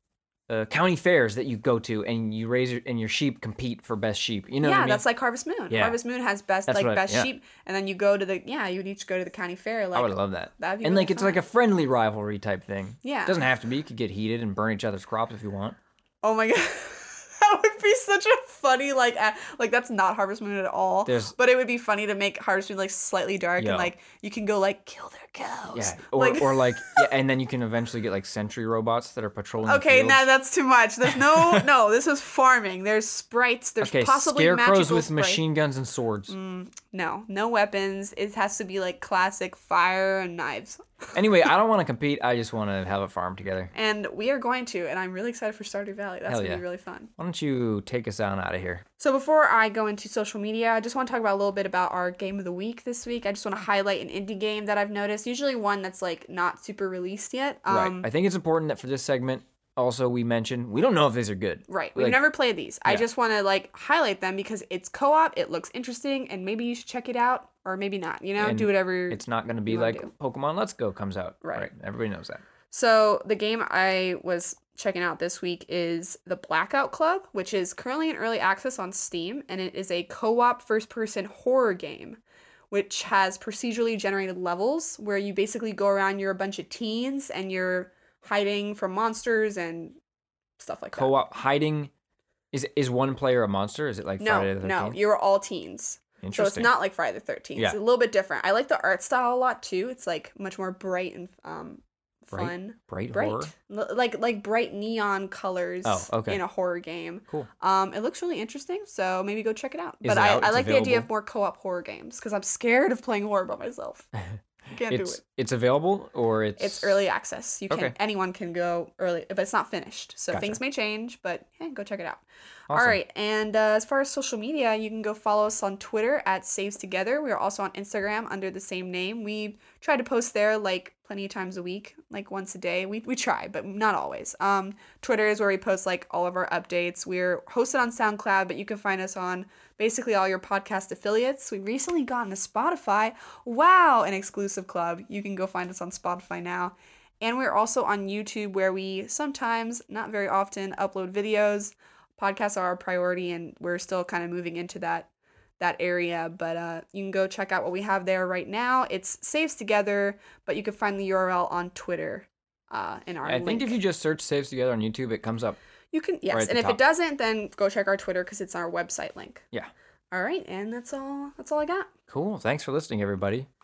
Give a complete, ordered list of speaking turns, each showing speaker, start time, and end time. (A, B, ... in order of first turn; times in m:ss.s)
0:00.5-0:05.0 A
0:04.6-0:11.4 B
0:05.7-0:06.0 A
0:06.7-0:07.3 A
0:10.0-0:15.8 A
0:13.0-0:13.4 B
0:16.2-0:27.1 B
0:21.1-0:21.3 A
0:23.6-0:23.9 A
0:25.7-0:30.3 A
0:29.6-0:35.4 B
0:31.0-0:31.6 A
0:33.8-0:36.3 A
0:36.3-0:41.0 B
0:41.2-0:43.7 A
0:43.7-0:47.1 B
0:46.3-0:46.6 A
0:47.2-0:48.8 A
0:49.0-0:58.1 B
0:57.7-1:02.2 A
1:01.7-1:10.1 B
1:08.4-1:12.4 A
1:11.4-1:11.7 B
1:12.7-1:22.2 B
1:22.7-1:30.0 B
1:30.6-1:31.1 B
1:31.0-1:31.9 A
1:32.5-1:35.0 A
1:34.2-1:54.1 B
1:36.2-1:36.7 A
1:42.3-1:43.5 A
1:45.8-1:46.4 A
1:50.0-1:51.1 A
1:54.7-1:55.2 B
1:54.9-1:57.0 A
1:56.6-2:43.8 B
1:57.7-1:58.0 A
2:00.3-2:00.6 A
2:02.7-2:03.0 A
2:43.2-2:45.6 A
2:45.9-2:49.4 B
2:46.3-2:46.8 A
2:50.1-2:51.9 B
2:52.1-2:53.5 A